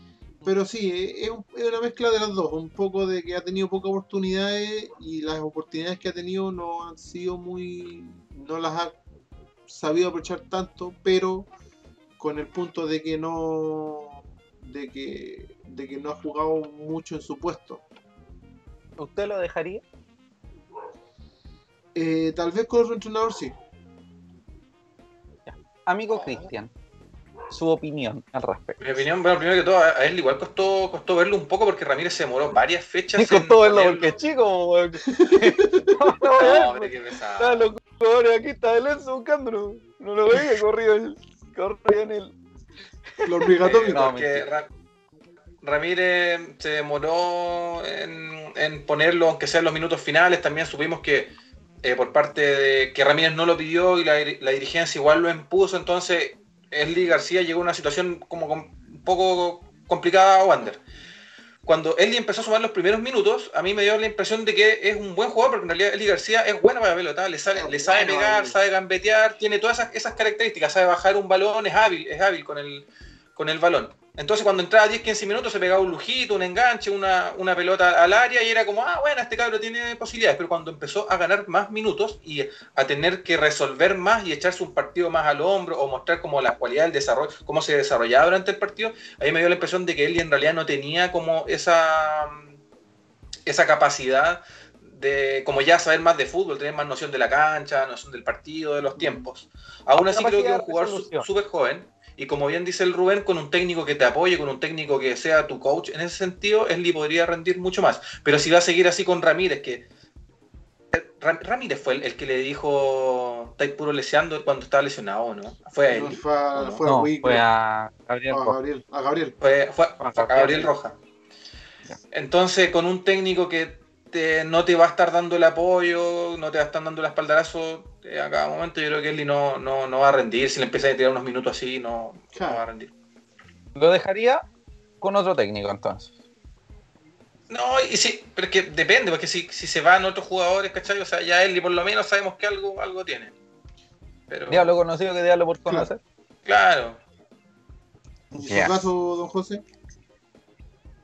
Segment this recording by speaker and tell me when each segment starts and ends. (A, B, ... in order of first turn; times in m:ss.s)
0:00.4-0:09.0 A
0:09.7-0:11.5 A
0:12.2-0:17.8 A
0:19.0-0:19.8 B
0:22.0-0:23.5 A
0:25.5-0:26.7 B
0:26.1-0:26.5 C
0:27.5-0:28.8 B
0:28.8-0:34.2 C
0:33.2-0:42.4 B
0:35.1-0:36.3 A
0:36.4-0:37.7 C
0:43.2-0:44.5 B
0:43.2-0:44.1 A
0:43.6-0:44.7 C
0:45.6-0:51.3 C
0:51.8-1:00.8 C
1:01.7-1:32.6 C
1:07.6-1:08.6 A
1:33.5-1:49.8 C
1:39.0-1:39.2 A
1:40.1-1:41.3 B
1:50.9-1:56.8 C
1:55.9-1:57.4 A
1:56.9-1:58.6 B
1:58.3-1:59.4 A
1:59.4-2:01.0 C
2:00.0-2:00.7 B
2:02.1-2:12.9 C
2:12.3-2:12.6 A
2:13.8-2:14.4 B
2:15.0-2:16.1 B
2:17.5-2:23.3 C
2:24.3-2:24.7 C
2:24.5-2:26.0 B
2:26.4-2:27.0 C
2:28.3-2:29.6 A
2:28.4-2:28.8 B